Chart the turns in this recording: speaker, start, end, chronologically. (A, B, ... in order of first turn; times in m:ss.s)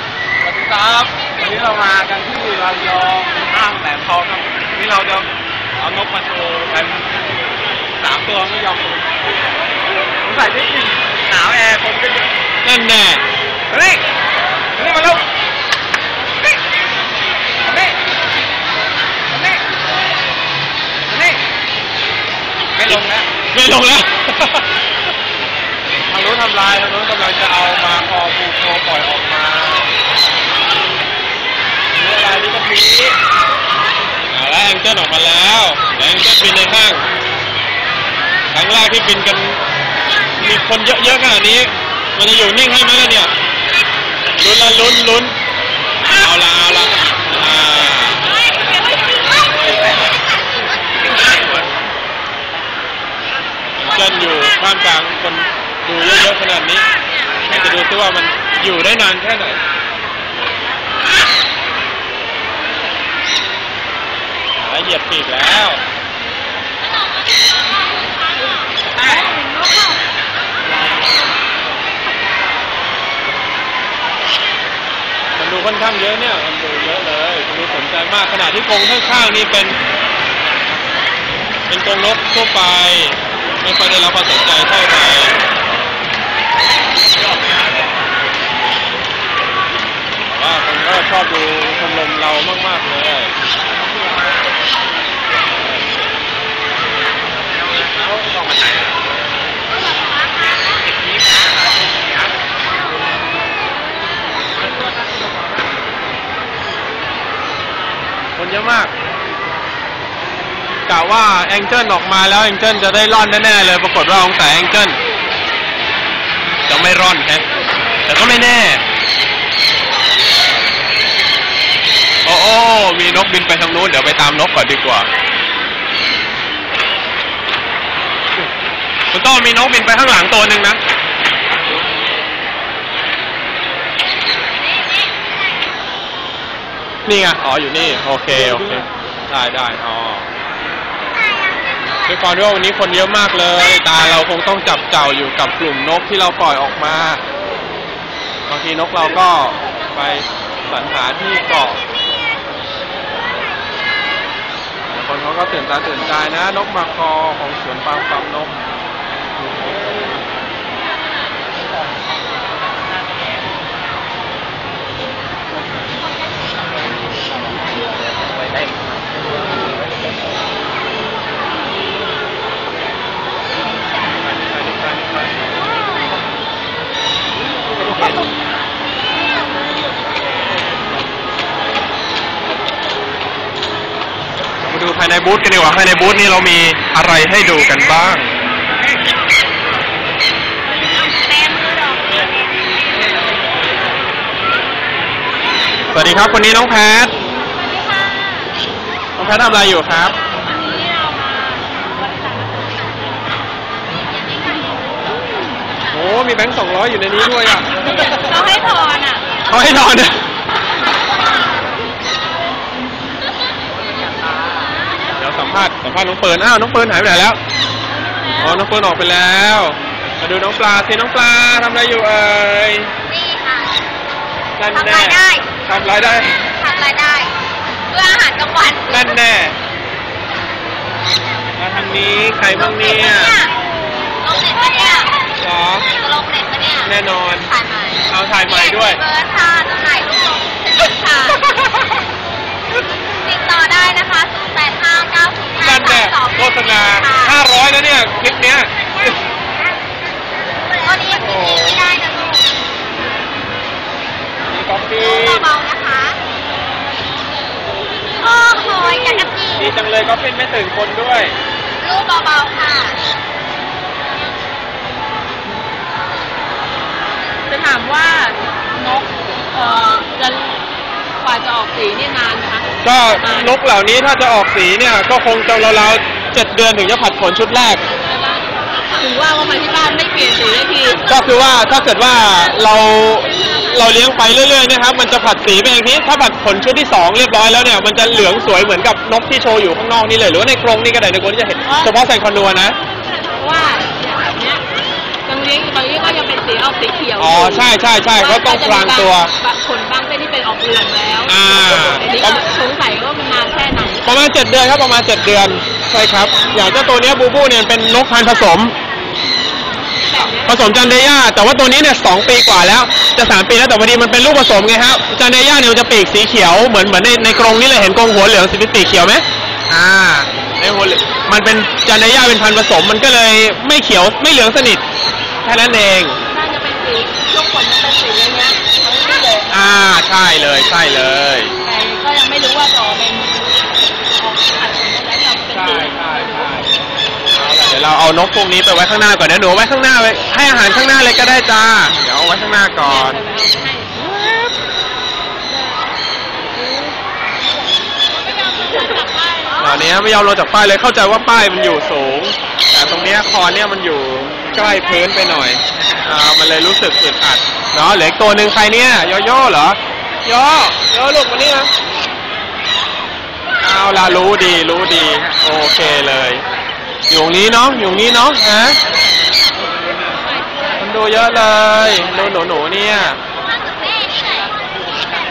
0:00.4-0:05.3 A
0:05.8-0:07.1 A
0:08.0-0:09.1 A
0:10.1-0:12.3 A
0:12.6-0:13.2 B
0:13.7-0:14.0 A
0:14.8-0:15.2 A
0:17.7-0:17.9 A
0:19.3-0:19.6 A
0:21.1-0:21.4 A
0:22.8-0:23.3 A
0:22.8-0:24.6 B
0:26.1-0:29.8 B
0:26.2-0:28.6 A
0:32.0-0:33.0 A
0:32.3-0:33.0 B
0:34.3-0:37.0 B
0:38.5-0:39.6 B
0:40.4-0:43.3 B
0:44.4-0:45.3 B
0:46.1-0:48.4 B
0:49.6-0:50.0 B
0:51.1-0:51.4 A
0:53.8-0:56.8 B
0:57.4-0:59.6 B
1:04.6-1:05.8 B
1:08.3-1:10.0 C
1:15.4-1:19.8 B
1:21.7-1:25.4 B
1:30.3-1:33.3 B
1:33.9-1:34.3 A
1:35.6-1:35.9 B
1:37.5-1:39.0 A
1:39.8-1:40.5 D
1:40.8-1:42.3 A
1:44.6-1:45.4 A
1:48.4-1:48.9 B
1:50.9-1:55.0 B
1:56.7-1:57.4 B
1:58.0-1:58.8 B
2:02.2-2:05.1 B
2:09.1-2:10.8 B
2:17.0-2:20.3 B
2:21.2-2:21.7 D
2:21.8-2:27.2 B
2:28.5-2:31.8 B
2:34.9-2:38.6 B
2:39.4-2:39.9 B
3:04.6-3:08.3 B
3:11.1-3:12.0 C
3:15.9-3:17.1 B
3:19.2-3:20.1 B
3:20.4-3:22.7 C
3:24.2-3:24.8 D
3:25.9-3:28.2 B
3:27.9-3:29.2 C
3:29.4-3:30.2 B
3:35.2-3:37.4 B
3:38.0-3:38.6 C
3:38.3-3:42.9 B
3:43.1-3:43.8 D
3:44.6-3:46.4 B
3:44.7-3:45.5 D
3:46.6-3:47.3 D
3:47.9-3:49.2 D
3:48.9-3:49.6 B
3:51.6-3:53.3 B
3:52.5-3:53.5 D
3:54.2-3:55.1 D
3:55.4-3:55.9 B
3:55.9-4:01.4 D
3:56.8-3:57.5 B
3:58.1-3:59.0 B
4:01.3-4:01.8 B
4:03.2-4:07.4 D
4:05.6-4:09.1 B
4:09.0-4:09.8 D
4:10.7-4:12.6 D
4:11.2-4:11.8 B
4:14.5-4:15.5 B
4:15.0-4:16.2 D
4:18.2-4:19.7 D
4:19.6-4:21.4 B
4:21.8-4:23.0 D
4:27.5-4:30.6 C
4:31.2-4:33.6 C
4:32.8-4:37.8 B
4:38.1-4:41.0 C
4:41.1-4:52.8 B
4:51.6-4:51.9 C
4:53.3-4:54.6 C
4:55.2-5:04.0 C
4:57.2-4:59.3 B
5:01.2-5:02.4 B
5:04.0-5:08.7 B
5:10.0-5:10.5 C
5:10.3-5:24.8 B
5:25.4-5:26.2 B
5:26.3-5:29.6 C
5:29.5-5:31.5 B
5:31.6-5:36.6 C
5:35.5-5:36.7 B
5:37.3-5:43.2 B
5:42.8-5:44.1 C
5:44.0-5:44.5 B
5:45.5-5:45.9 C
5:46.5-5:47.0 C
5:48.1-5:49.8 C
5:49.6-6:01.7 B
5:54.5-5:55.5 C
6:03.6-6:06.4 B
6:07.1-6:08.8 B
6:10.2-6:10.7 C
6:10.8-6:13.2 B
6:13.5-6:14.6 D